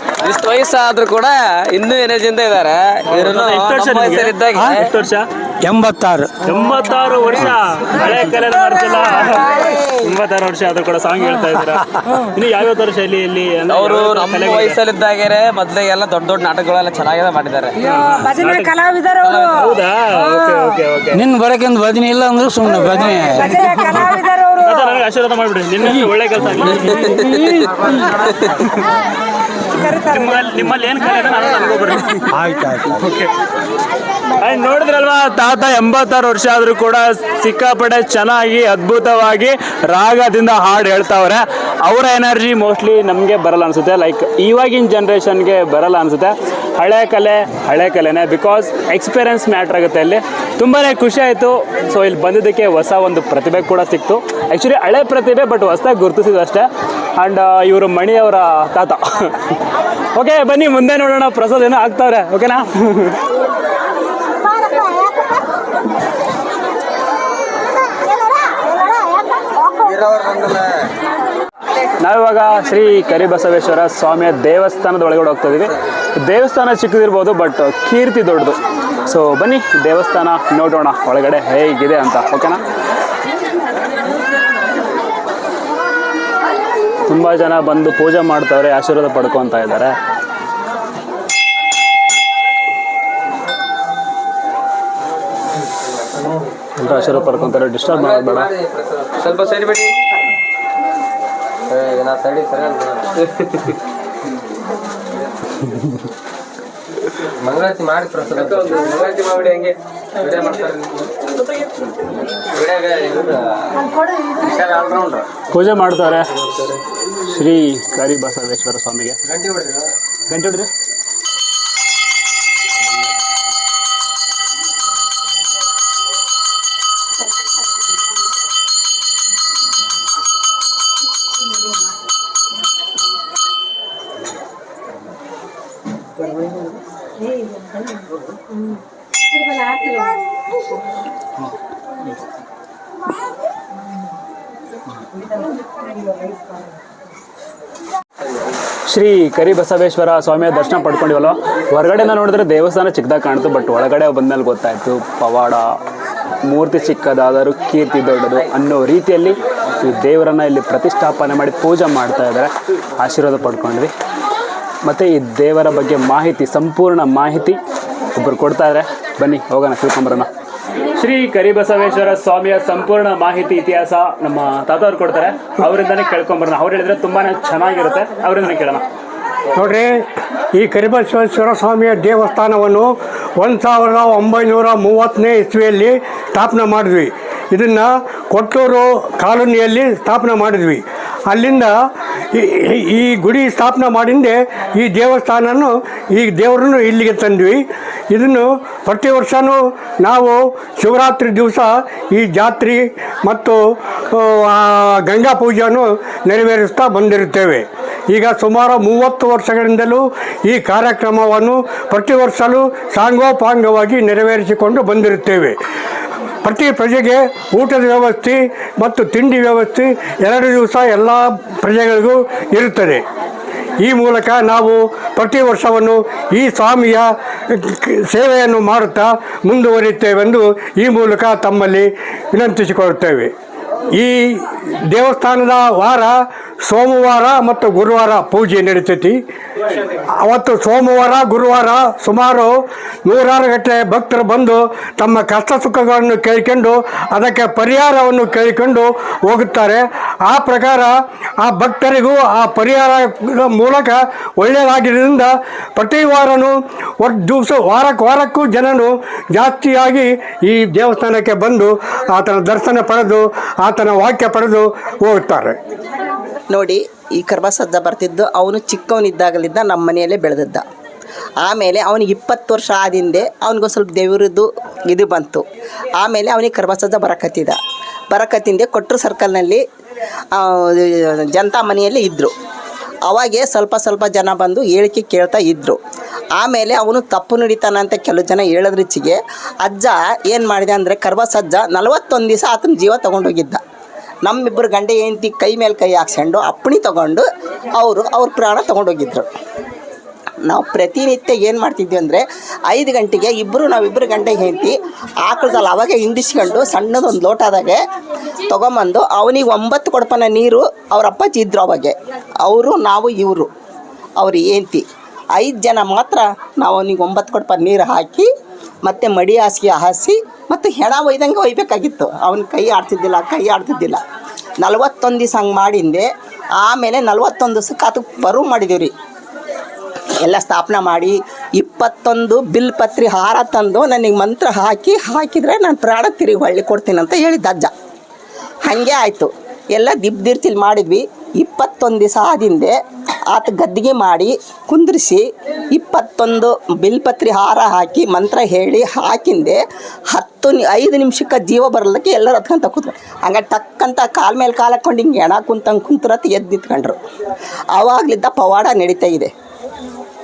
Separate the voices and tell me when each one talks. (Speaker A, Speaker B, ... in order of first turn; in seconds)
Speaker A: 0.2-4.9, 13.7-17.8, 19.2-19.5, 26.9-28.4, 70.1-70.5, 97.9-99.9, 101.7-103.8, 107.4-111.1, 112.4-113.8, 114.4-115.2, 119.3-119.8
Speaker B: 3.1-5.3, 6.4-14.8, 17.8-18.7, 19.5-21.2, 24.6-27.2, 28.5-28.9, 30.1-33.3, 34.4-59.6, 60.1-63.2, 72.0-82.6, 87.1-90.0, 96.8-98.5, 115.5-116.3, 117.2-119.2, 120.3-120.7, 148.9-155.8, 156.4-163.9, 164.8-167.6, 168.1-170.3, 170.9-178.8
Speaker C: 5.6-6.4, 21.1-24.1, 32.4-32.8
Speaker D: 9.2-9.7, 17.8-19.8, 22.9-25.0, 29.7-30.4, 139.6-140.1
Speaker E: 179.5-191.8, 192.3-197.6, 198.1-203.6, 204.1-215.6, 216.4-223.0, 223.8-233.3, 233.9-236.1, 236.7-239.2, 240.2-265.6
Speaker F: 266.5-270.6, 271.4-275.4, 276.0-277.6, 278.1-279.6, 280.3-282.3, 283.1-285.8, 286.4-293.6, 294.2-299.3, 300.4-307.9, 308.5-313.5, 314.2-318.3, 318.8-324.0, 324.6-328.9, 330.2-337.7, 338.6-342.8, 343.3-349.6, 350.1-357.0, 357.7-359.3